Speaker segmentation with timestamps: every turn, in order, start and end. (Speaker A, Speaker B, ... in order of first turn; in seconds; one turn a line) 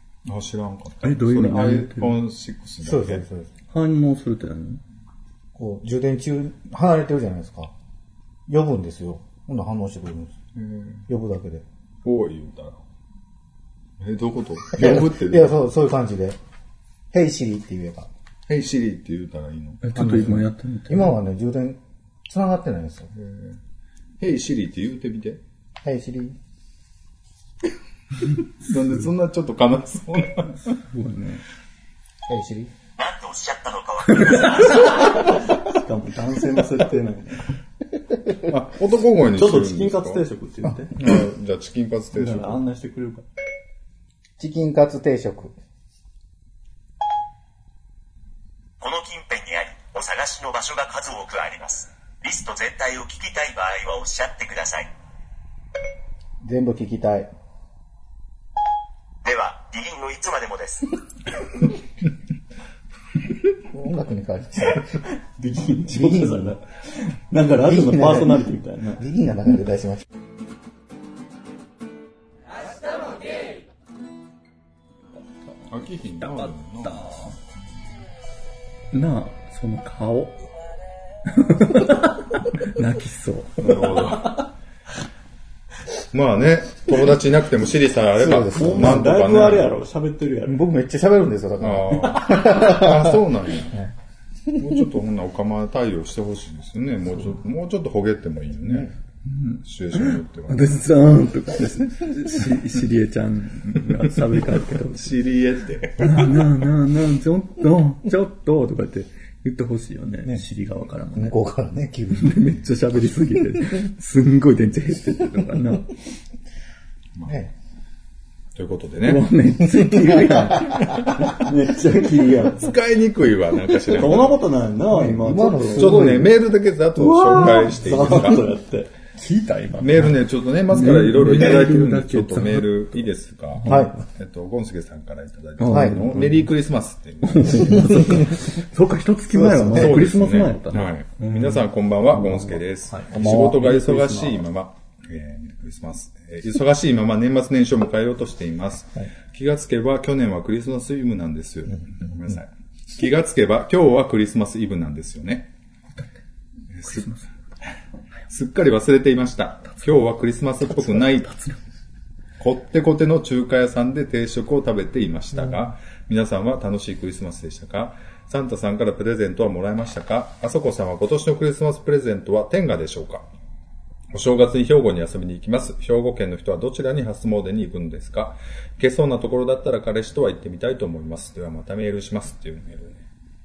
Speaker A: 0.2-3.2
Speaker B: 1.0-2.2
Speaker C: 2.8-3.5
Speaker B: 3.7-4.8
Speaker C: 5.5-7.7
Speaker C: 8.5-10.3
Speaker A: 10.5-11.1
Speaker C: 11.1-11.6
Speaker A: 12.0-12.8
Speaker A: 14.0-15.5
Speaker C: 14.7-16.4
Speaker C: 17.1-18.1
Speaker A: 18.5-19.9
Speaker B: 19.8-21.2
Speaker C: 19.9-23.1
Speaker A: 23.1-23.6
Speaker A: 24.2-25.4
Speaker C: 25.8-26.4
Speaker A: 28.6-30.8
Speaker B: 30.6-31.4
Speaker C: 32.3-32.7
Speaker D: 33.0-35.0
Speaker B: 34.1-37.5
Speaker A: 38.4-40.2
Speaker B: 39.3-41.0
Speaker A: 40.9-42.6
Speaker B: 42.1-43.2
Speaker C: 44.4-45.5
Speaker D: 48.8-54.9
Speaker C: 56.4-57.3
Speaker D: 59.2-60.9
Speaker C: 63.6-65.0
Speaker B: 65.3-69.0
Speaker C: 65.9-66.5
Speaker C: 67.6-68.5
Speaker C: 69.0-70.0
Speaker A: 75.7-77.1
Speaker B: 76.2-77.3
Speaker B: 78.9-80.4
Speaker B: 81.2-84.4
Speaker A: 83.6-84.5
Speaker A: 86.1-89.7
Speaker C: 88.2-89.3
Speaker B: 88.3-90.7
Speaker C: 90.5-93.2
Speaker A: 91.6-93.8
Speaker A: 94.5-98.9
Speaker C: 98.7-98.9
Speaker B: 99.2-105.2
Speaker A: 99.6-100.8
Speaker A: 104.3-106.5
Speaker B: 106.0-111.4
Speaker C: 111.1-112.5
Speaker B: 112.1-115.9
Speaker A: 117.1-117.4
Speaker C: 117.2-117.5
Speaker A: 118.5-119.4
Speaker B: 119.0-122.7
Speaker C: 120.1-120.7
Speaker A: 120.8-121.3
Speaker A: 122.4-124.4
Speaker B: 123.8-126.1
Speaker C: 124.9-126.3
Speaker A: 125.7-128.5
Speaker B: 127.0-130.1
Speaker A: 129.8-138.3
Speaker B: 130.7-133.1
Speaker B: 133.6-134.0
Speaker C: 133.7-133.9
Speaker B: 135.6-136.5
Speaker C: 135.7-136.1
Speaker B: 137.3-144.4
Speaker C: 137.8-138.2
Speaker C: 139.3-140.0
Speaker A: 139.7-155.5
Speaker C: 143.1-143.5
Speaker A: 156.7-157.1
Speaker B: 156.8-157.3
Speaker A: 158.3-161.3
Speaker B: 160.7-161.6
Speaker A: 162.4-173.3
Speaker A: 174.1-183.0